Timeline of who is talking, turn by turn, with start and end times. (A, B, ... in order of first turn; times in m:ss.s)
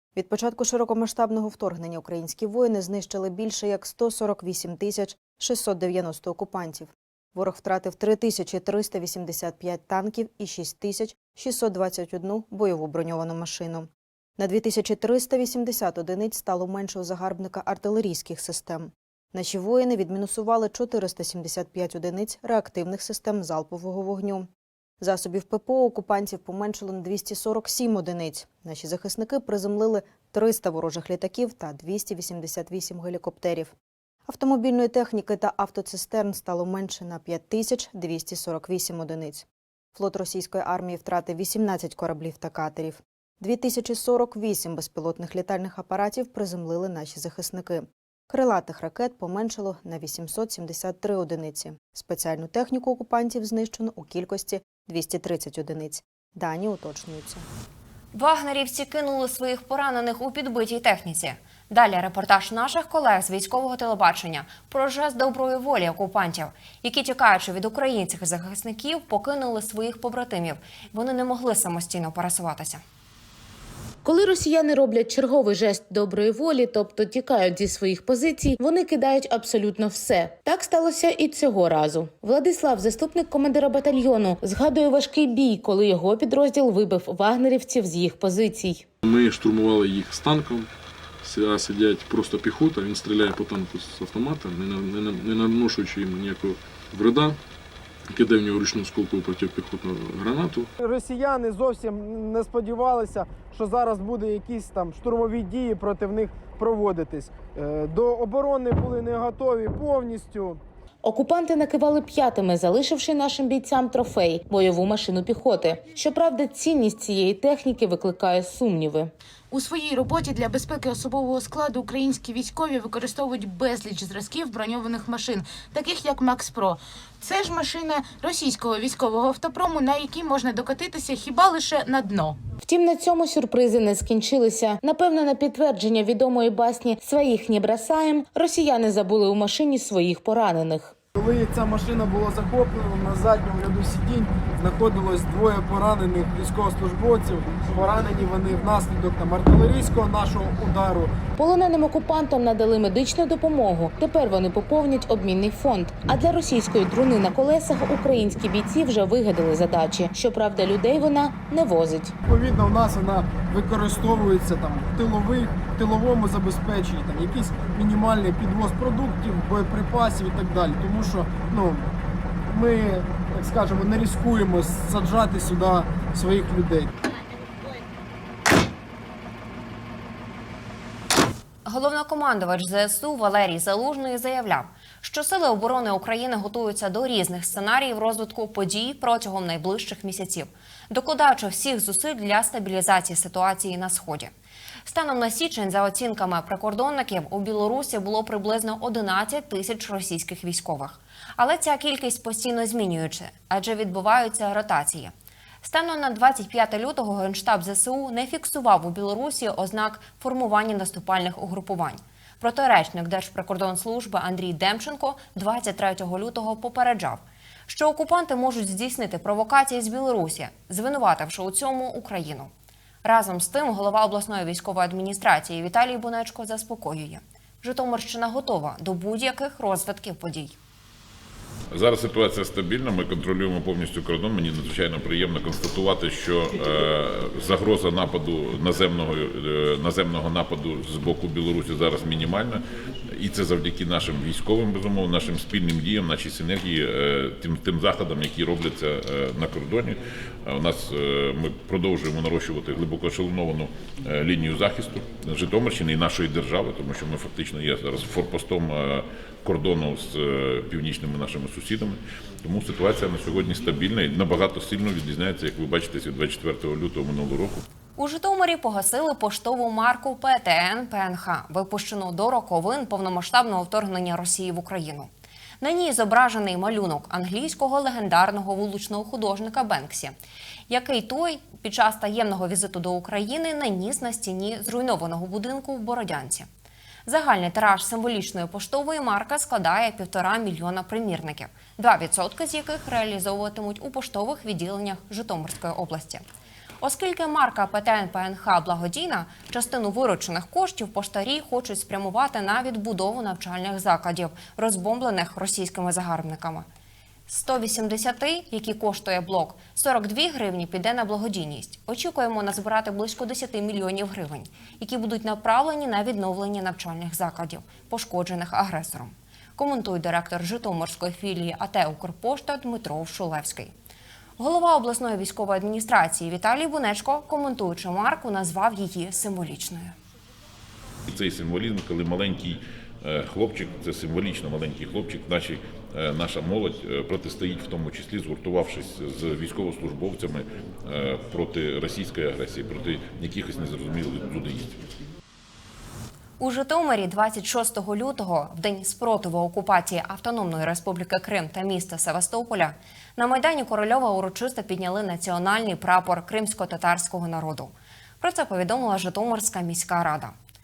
0:00.2-0:24.5 A
0:25.0-0:33.7 A
0:34.3-0:57.4 A
0:58.1-1:12.8 B
1:14.0-1:28.8 C
1:29.0-1:30.7 D
1:31.2-1:37.4 D
1:38.1-1:40.7 D
1:40.8-1:50.6 E
1:51.0-1:59.1 C
1:59.5-2:12.4 F
2:12.6-2:20.9 C
2:21.1-2:31.1 E
2:31.4-2:42.1 C
2:42.2-2:51.9 E
2:52.5-2:56.9 E
3:01.7-3:14.3 B
3:14.9-3:42.5 B
3:43.0-3:50.6 B
3:51.7-4:02.6 G
4:03.1-4:27.6 G
4:28.0-4:35.1 B
4:35.6-4:40.2 B
4:40.7-4:46.5 B
4:47.1-4:56.2 B
4:56.8-5:06.7 B
5:07.3-5:23.7 B
5:24.4-5:29.9 B
5:31.1-5:44.7 G
5:46.4-6:00.3 B